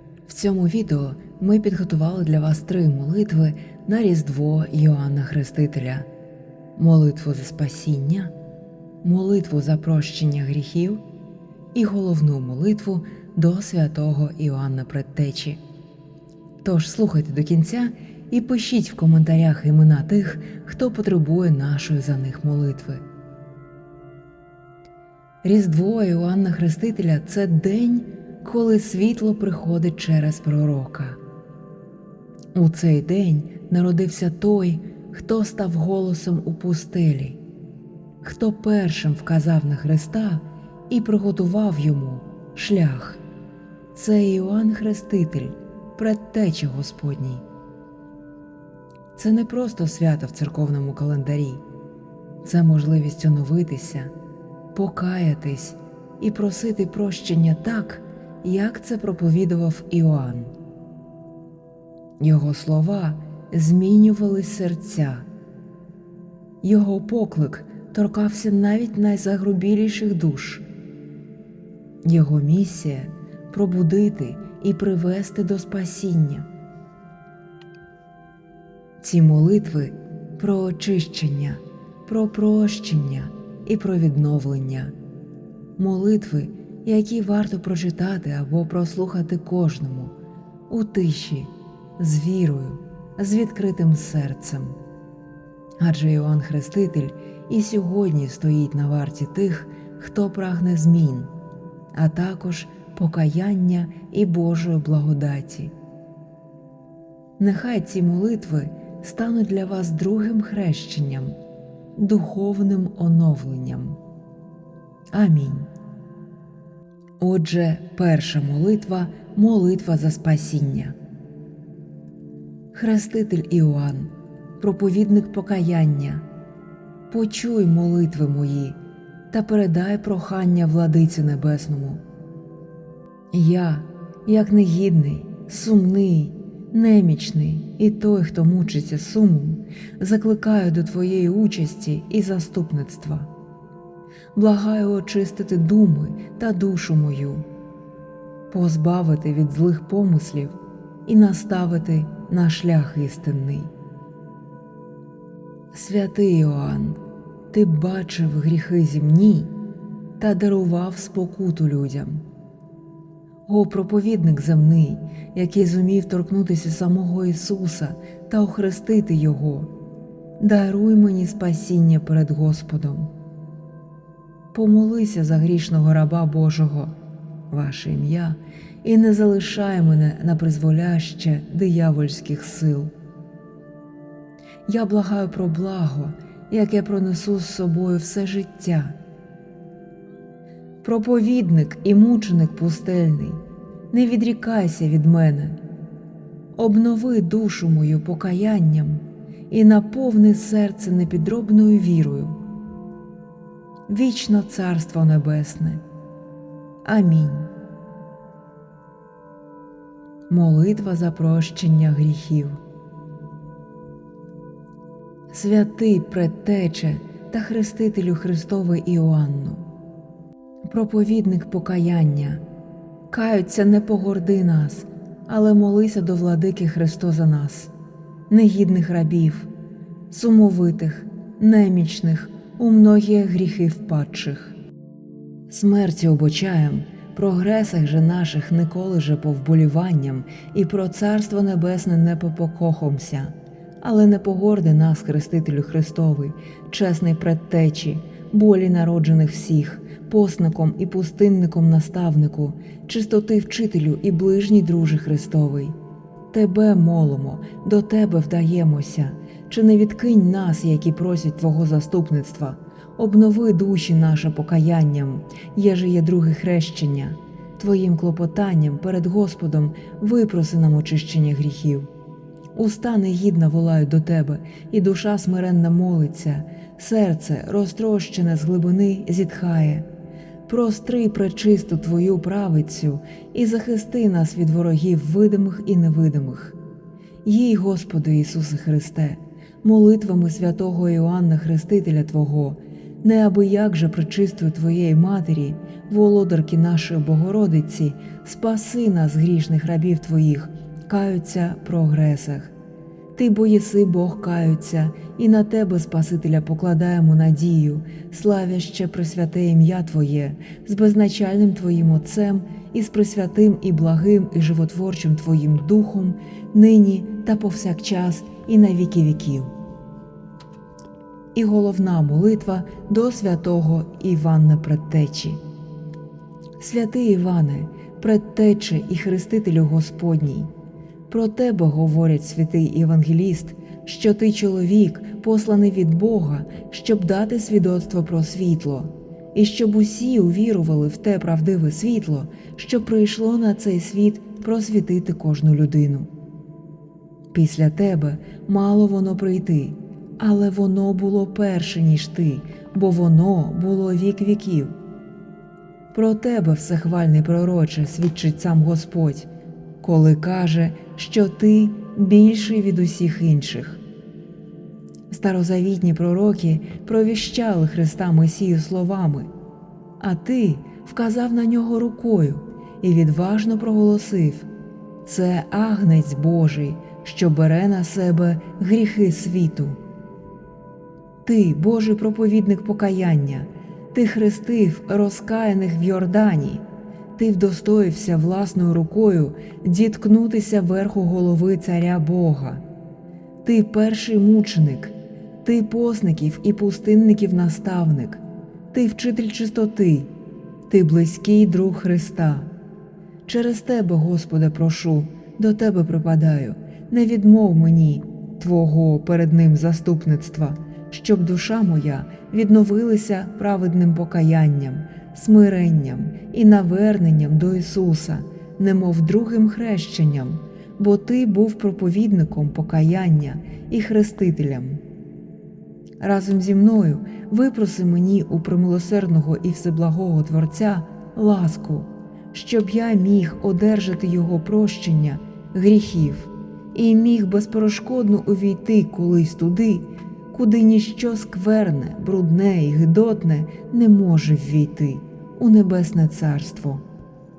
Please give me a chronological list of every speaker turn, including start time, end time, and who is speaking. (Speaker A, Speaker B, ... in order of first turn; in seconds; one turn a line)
Speaker A: 0.2-6.1
Speaker A: 6.8-8.3
Speaker A: 9.0-11.0
Speaker A: 11.7-15.6
Speaker A: 16.6-23.0
Speaker A: 25.4-31.2
Speaker A: 32.5-37.4
Speaker A: 38.2-43.2
Speaker A: 43.9-47.4
Speaker A: 49.1-51.6
Speaker A: 52.4-54.1
Speaker A: 54.7-60.5
Speaker A: 62.2-65.3
Speaker A: 66.6-70.6
Speaker A: 72.0-76.5
Speaker A: 79.0-84.9
Speaker A: 85.8-90.1
Speaker A: 90.7-94.8
Speaker A: 95.8-101.3
Speaker A: 101.9-105.7
Speaker A: 107.4-111.4
Speaker A: 112.0-114.0
Speaker A: 115.1-115.7
Speaker A: 117.2-121.0
Speaker A: 122.7-126.2
Speaker A: 127.1-128.8
Speaker A: 129.3-132.0
Speaker A: 133.3-143.3
Speaker A: 144.3-147.5
Speaker A: 148.5-153.7
Speaker A: 155.7-157.0
Speaker A: 157.5-159.5
Speaker A: 160.2-162.2
Speaker A: 163.4-169.7
Speaker A: 170.4-173.1
Speaker A: 174.5-176.9
Speaker A: 177.5-182.9
Speaker A: 184.7-188.9
Speaker A: 190.8-195.6
Speaker A: 196.6-202.3
Speaker A: 203.9-205.8
Speaker A: 206.8-207.5
Speaker A: 210.3-212.6
Speaker A: 215.3-219.6
Speaker A: 220.6-222.4
Speaker A: 223.1-227.7
Speaker A: 228.3-229.5
Speaker A: 230.1-234.5
Speaker A: 235.5-255.8
Speaker A: 256.3-271.9
Speaker A: 272.5-279.9
Speaker A: 280.5-286.6
Speaker A: 287.2-302.5
Speaker A: 303.1-319.5
Speaker A: 321.3-325.4
Speaker A: 326.6-330.5
Speaker A: 331.1-346.1
Speaker A: 347.3-354.7
Speaker A: 355.9-359.3
Speaker A: 359.8-363.8
Speaker A: 365.1-369.3
Speaker A: 370.0-374.5
Speaker A: 375.0-379.8
Speaker A: 381.2-386.6
Speaker A: 387.1-392.6
Speaker A: 393.4-400.1
Speaker A: 400.7-402.5
Speaker A: 403.3-424.8
Speaker A: 426.0-446.8